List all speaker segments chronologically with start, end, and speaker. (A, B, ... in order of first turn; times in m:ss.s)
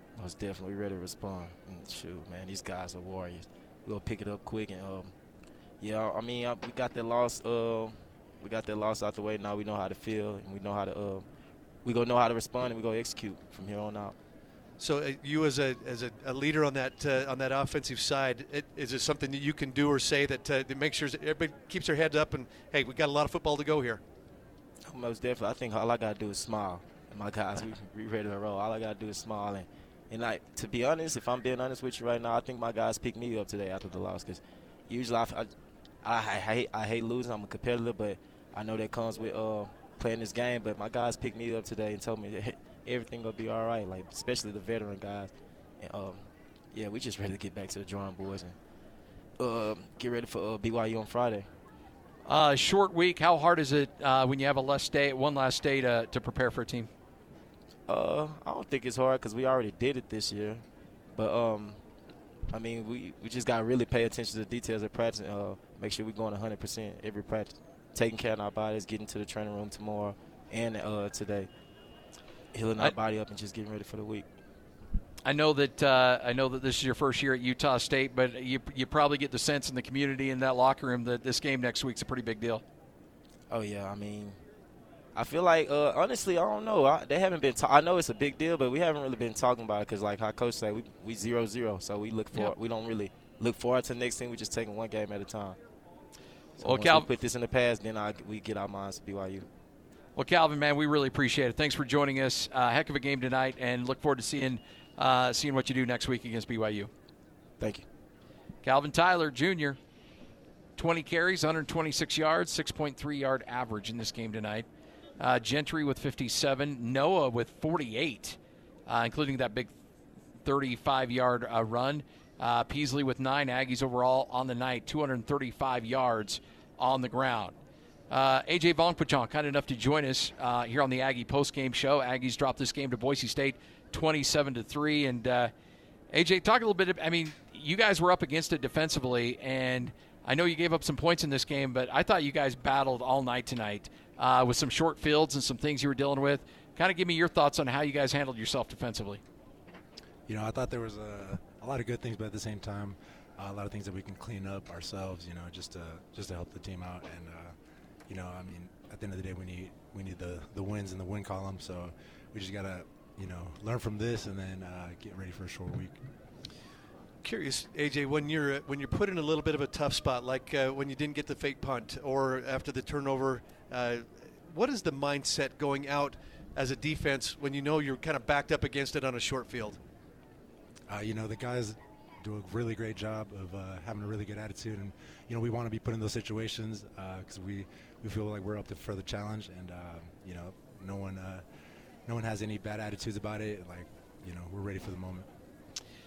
0:00.2-0:05.1 A
0:05.8-0:11.2 A
0:11.8-0:14.2 A
0:14.8-0:24.0 B
0:24.9-0:35.5 A
0:36.0-0:48.6 A
0:49.4-0:51.5 A
0:52.3-0:56.9 C
0:57.9-1:00.6 A
1:01.2-1:01.8 A
1:02.5-1:11.5 A
1:12.5-1:14.3 A
1:15.3-1:22.6 C
1:23.5-1:24.4 A
1:25.2-1:35.6 A
1:36.6-1:39.5 A
1:36.6-1:37.1 C
1:40.2-1:46.9 C
1:47.6-1:47.9 A
1:48.6-1:49.8 C
1:50.8-1:54.7 C
1:55.2-1:59.7 C
2:00.4-2:07.6 C
2:08.1-2:15.5 C
2:16.1-2:29.2 C
2:30.3-2:37.6 D
2:38.1-2:46.0 D
2:47.2-2:59.8 B
3:00.9-3:11.4 D
3:12.1-3:15.3 D